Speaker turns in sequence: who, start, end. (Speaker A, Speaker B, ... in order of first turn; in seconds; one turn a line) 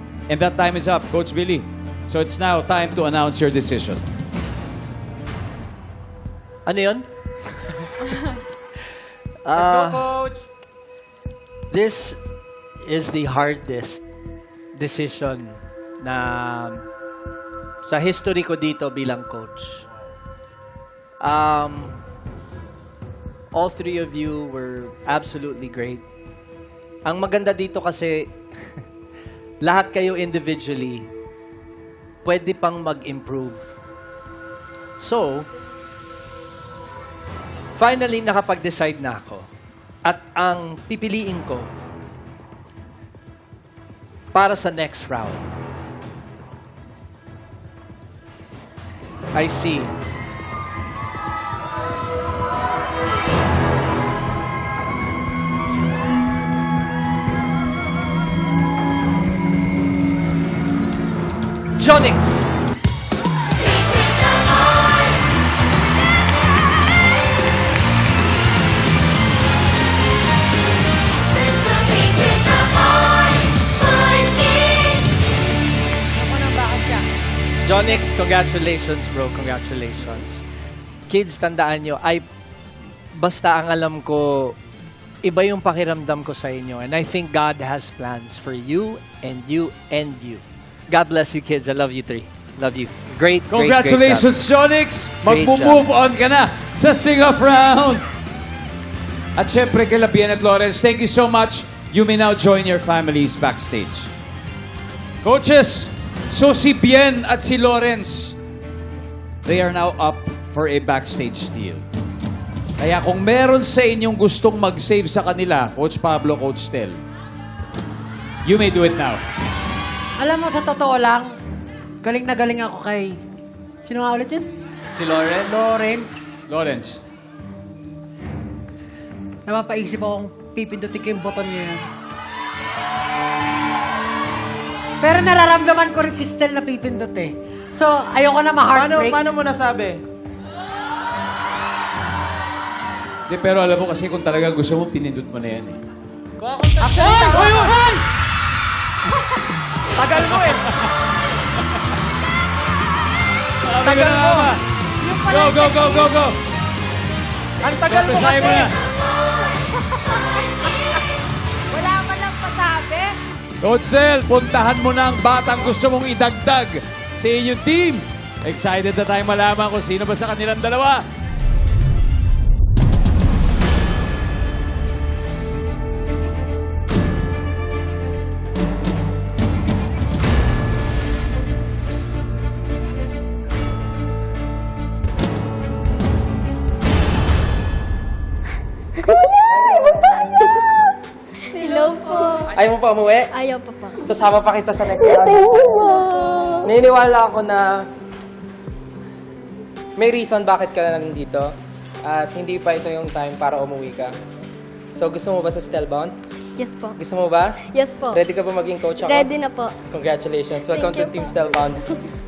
Speaker A: 0.3-4.0
Speaker B: 6.7-7.9
Speaker B: 9.4-10.2
Speaker C: 9.6-10.4
Speaker B: 11.7-12.2
Speaker B: 12.8-14.0
Speaker B: 14.8-16.9
Speaker B: 17.8-19.8
Speaker B: 21.2-22.0
Speaker B: 23.5-26.0
Speaker B: 27.1-28.8
Speaker B: 29.6-31.1
Speaker B: 32.2-33.7
Speaker B: 35.0-35.5
Speaker B: 37.8-39.5
Speaker B: 40.0-41.7
Speaker B: 44.3-45.5
Speaker B: 49.3-50.0
Speaker B: 61.8-62.5
Speaker D: 76.1-77.0
Speaker B: 77.6-80.4
Speaker B: 81.1-82.2
Speaker B: 83.2-84.6
Speaker B: 85.2-94.3
Speaker A: 93.5-98.0
Speaker B: 95.2-95.8
Speaker A: 99.4-104.1
Speaker A: 105.2-108.4
Speaker A: 109.4-111.8
Speaker A: 112.8-117.0
Speaker A: 118.4-119.2
Speaker D: 120.2-121.3
Speaker D: 122.0-123.2
Speaker D: 123.9-124.5
Speaker B: 124.9-125.7
Speaker D: 125.5-126.4
Speaker A: 126.5-127.0
Speaker D: 129.5-131.9
Speaker D: 135.0-139.2
Speaker B: 138.8-139.9
Speaker C: 139.1-139.9
Speaker A: 143.3-145.8
Speaker A: 146.8-147.9
Speaker C: 146.8-147.7
Speaker D: 146.8-147.8
Speaker C: 150.1-150.5
Speaker A: 150.2-150.9
Speaker A: 153.6-154.6
Speaker D: 153.9-154.5
Speaker D: 155.0-156.1
Speaker A: 155.2-156.4
Speaker A: 157.7-158.8
Speaker D: 157.8-158.6
Speaker D: 161.7-163.1
Speaker A: 163.6-171.1
Speaker E: 189.9-190.8
Speaker E: 191.5-192.6
Speaker C: 192.5-193.3
Speaker E: 193.3-194.1
Speaker C: 194.1-195.6
Speaker E: 195.2-196.7
Speaker C: 196.6-197.9
Speaker C: 200.0-201.5
Speaker C: 202.0-204.1
Speaker C: 204.9-206.1
Speaker E: 206.6-207.0
Speaker C: 207.0-209.3
Speaker E: 207.6-208.2
Speaker E: 209.0-209.8
Speaker C: 209.9-211.8
Speaker E: 210.7-212.0